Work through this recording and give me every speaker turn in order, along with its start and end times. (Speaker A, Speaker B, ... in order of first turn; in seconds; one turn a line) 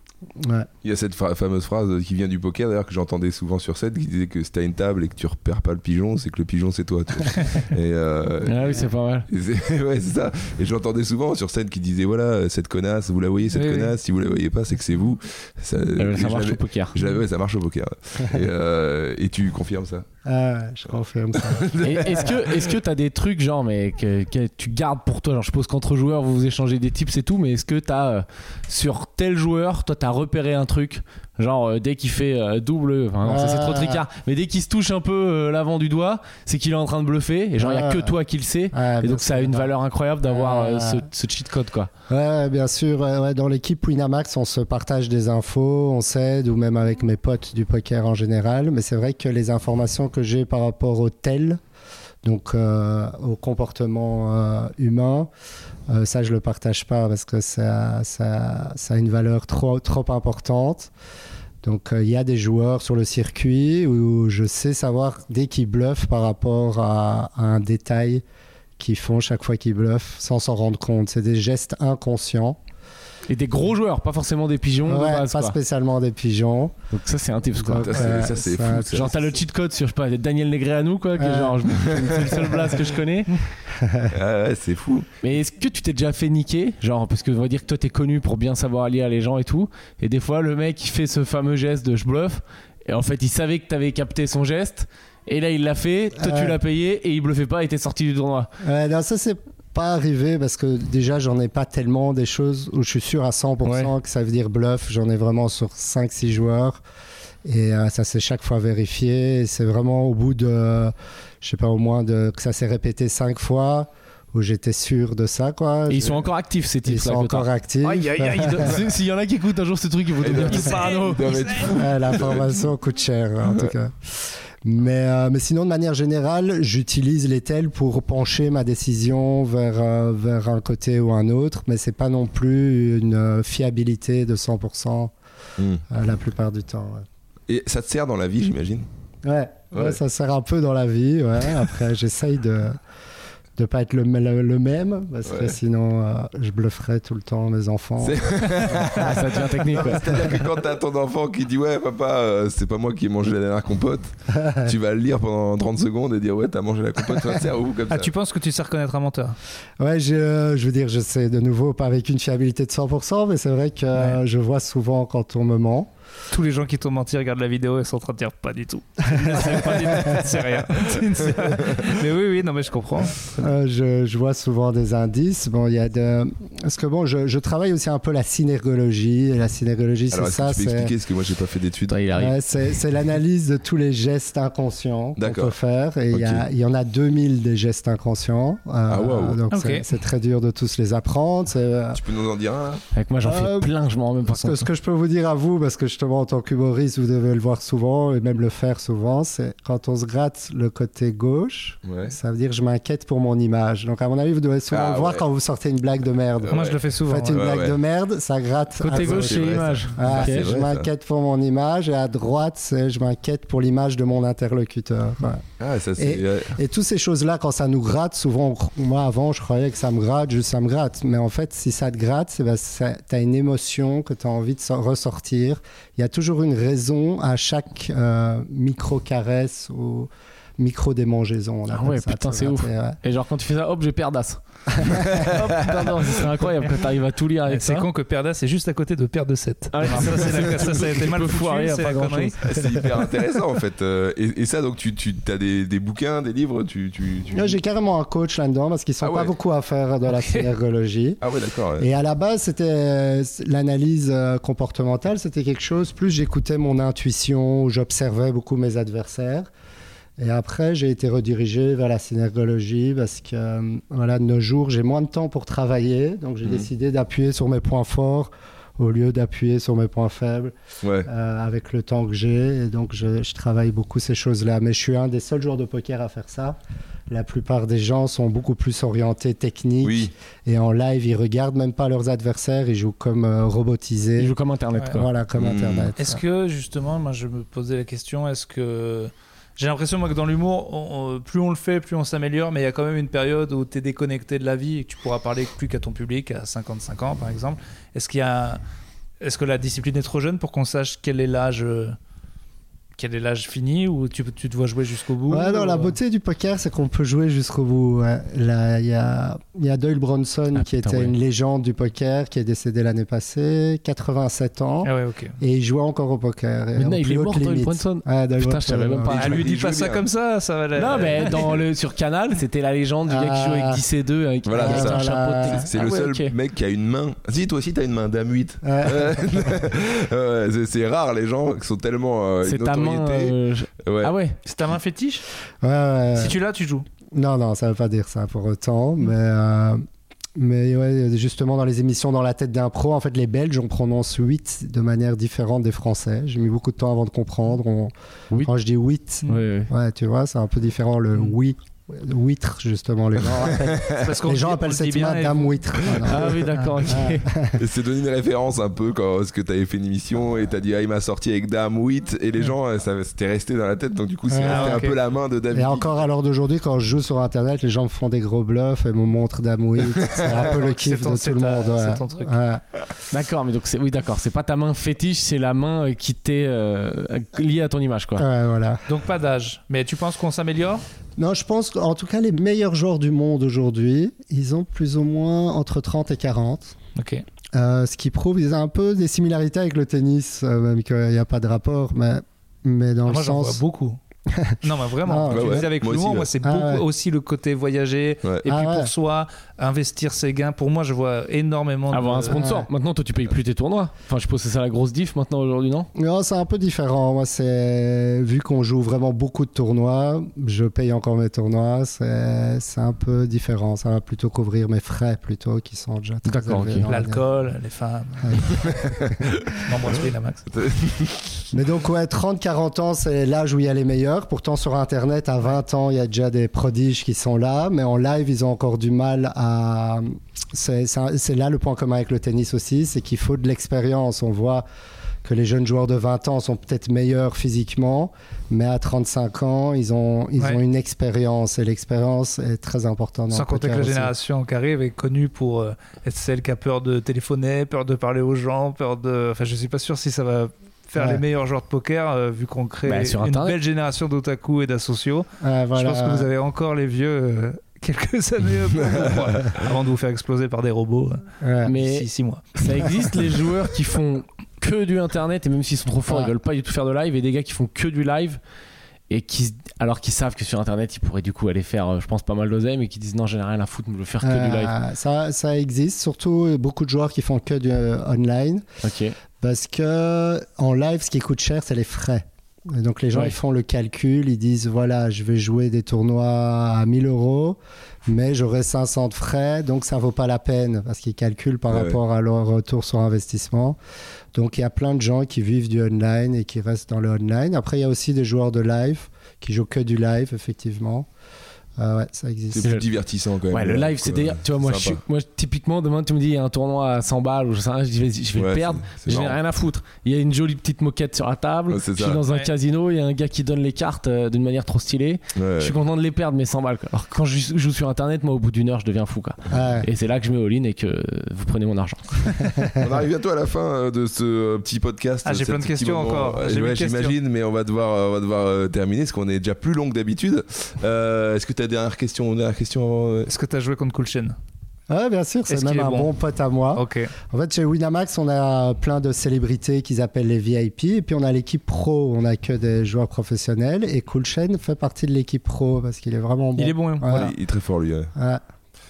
Speaker A: 0.4-0.7
Speaker B: 0.8-20.1
Speaker C: 8.5-9.3
Speaker D: 13.5-13.9
Speaker C: 16.0-16.9
Speaker A: 20.2-21.7
Speaker B: 21.4-22.7
Speaker C: 21.8-41.9
Speaker A: 33.2-34.1
Speaker A: 37.6-38.1
Speaker A: 38.7-39.7
Speaker A: 40.2-41.1
Speaker A: 42.1-51.6
Speaker A: 52.2-55.3
Speaker A: 55.9-60.9
Speaker A: 61.6-68.2
Speaker A: 68.8-72.6
Speaker C: 73.3-75.5
Speaker A: 74.8-76.7
Speaker C: 76.9-83.4
Speaker A: 77.6-79.3
Speaker B: 77.8-79.1
Speaker A: 81.2-81.7
Speaker B: 81.8-82.4
Speaker A: 83.7-84.1
Speaker B: 84.1-85.1
Speaker C: 85.2-98.5
Speaker A: 96.2-96.6
Speaker A: 98.6-106.8
Speaker C: 103.7-103.9
Speaker A: 107.5-116.3
Speaker C: 115.9-121.7
Speaker A: 116.8-118.8
Speaker B: 120.2-122.7
Speaker D: 120.7-121.4
Speaker A: 121.7-135.1
Speaker B: 135.6-135.8
Speaker A: 135.9-137.1
Speaker B: 137.5-138.9
Speaker A: 139.2-142.8
Speaker B: 139.7-140.0
Speaker A: 143.6-148.8
Speaker B: 145.2-145.6
Speaker B: 148.0-158.1
Speaker C: 148.9-150.2
Speaker A: 149.8-150.2
Speaker A: 154.3-154.7
Speaker D: 157.9-159.4
Speaker A: 159.8-165.9
Speaker D: 166.3-173.5
Speaker A: 169.0-170.5
Speaker A: 173.4-180.9
Speaker B: 180.1-182.0
Speaker C: 181.9-182.3
Speaker A: 182.1-192.0
Speaker B: 185.2-185.6
Speaker B: 186.1-186.4
Speaker B: 188.9-189.4
Speaker D: 189.5-189.8
Speaker B: 191.9-192.8
Speaker C: 192.9-194.7
Speaker A: 193.2-193.7
Speaker A: 194.2-215.4
Speaker B: 201.8-202.2
Speaker B: 204.7-205.2
Speaker B: 206.5-206.8
Speaker D: 206.5-207.4
Speaker B: 207.3-207.8
Speaker C: 208.8-210.5
Speaker B: 208.9-210.9
Speaker B: 215.6-216.6
Speaker A: 216.0-233.0
Speaker C: 231.7-237.9
Speaker A: 234.8-235.3
Speaker B: 234.9-236.2
Speaker D: 237.5-242.4
Speaker C: 239.7-243.0
Speaker B: 242.4-247.6
Speaker A: 247.3-251.2
Speaker B: 249.0-249.3
Speaker D: 250.1-250.5
Speaker B: 251.2-251.9
Speaker A: 251.8-259.5
Speaker A: 260.2-270.5
Speaker B: 270.8-271.1
Speaker A: 271.1-276.6
Speaker A: 277.1-284.4
Speaker B: 279.8-280.1
Speaker C: 284.2-285.1
Speaker A: 284.9-286.2
Speaker B: 285.4-285.9
Speaker D: 286.0-298.6
Speaker D: 299.2-302.0
Speaker D: 303.0-306.0
Speaker A: 305.3-319.4
Speaker C: 310.6-311.1
Speaker D: 314.9-315.4
Speaker C: 316.8-319.3
Speaker B: 319.1-320.0
Speaker D: 319.2-321.6
Speaker C: 320.8-326.3
Speaker B: 320.9-321.6
Speaker A: 323.1-323.8
Speaker B: 324.4-334.1
Speaker A: 324.6-325.6
Speaker A: 328.6-329.6
Speaker C: 332.4-334.4
Speaker D: 334.4-335.2
Speaker A: 335.6-336.4
Speaker D: 336.1-336.9
Speaker A: 337.1-339.8
Speaker A: 340.4-357.6
Speaker C: 349.3-349.7
Speaker B: 353.4-354.1
Speaker D: 353.9-356.0
Speaker B: 355.9-356.4
Speaker C: 356.1-357.3
Speaker D: 356.5-356.8
Speaker B: 357.6-366.0
Speaker A: 364.3-364.8
Speaker D: 364.4-365.0
Speaker A: 365.5-372.6
Speaker B: 370.0-370.3
Speaker D: 370.2-372.4
Speaker C: 373.1-378.2
Speaker A: 378.2-378.8
Speaker D: 378.9-380.8
Speaker A: 381.2-386.8
Speaker D: 387.0-387.2
Speaker A: 387.5-393.6
Speaker D: 393.1-394.0
Speaker A: 394.3-395.7
Speaker D: 394.6-402.4
Speaker B: 395.3-396.3
Speaker A: 396.4-396.9
Speaker A: 398.5-398.9
Speaker C: 401.9-405.9
Speaker A: 402.3-402.7
Speaker A: 405.9-417.2
Speaker C: 416.3-416.9
Speaker D: 416.9-418.5
Speaker B: 418.4-419.7
Speaker D: 419.6-420.5
Speaker B: 420.5-421.5
Speaker A: 421.5-434.6
Speaker A: 435.2-444.1
Speaker D: 443.3-462.9
Speaker A: 451.0-451.2
Speaker C: 452.9-453.6
Speaker A: 455.4-456.3
Speaker A: 461.4-461.7
Speaker C: 461.7-468.4
Speaker A: 466.1-466.3
Speaker C: 469.1-474.7
Speaker A: 474.2-478.6
Speaker C: 478.8-479.2
Speaker A: 479.4-493.8
Speaker B: 491.7-492.0
Speaker A: 494.3-501.1
Speaker A: 501.8-502.7
Speaker B: 502.5-505.0
Speaker C: 503.5-522.8
Speaker B: 508.3-509.4
Speaker B: 511.7-512.2
Speaker D: 512.3-512.5
Speaker B: 515.4-515.8
Speaker A: 519.5-519.9
Speaker A: 522.5-522.8
Speaker B: 522.8-533.3
Speaker D: 525.2-527.1
Speaker D: 533.3-534.4
Speaker A: 534.9-547.3
Speaker D: 535.5-536.1
Speaker D: 536.7-537.1
Speaker D: 546.6-547.3
Speaker B: 547.1-548.1
Speaker A: 548.1-548.4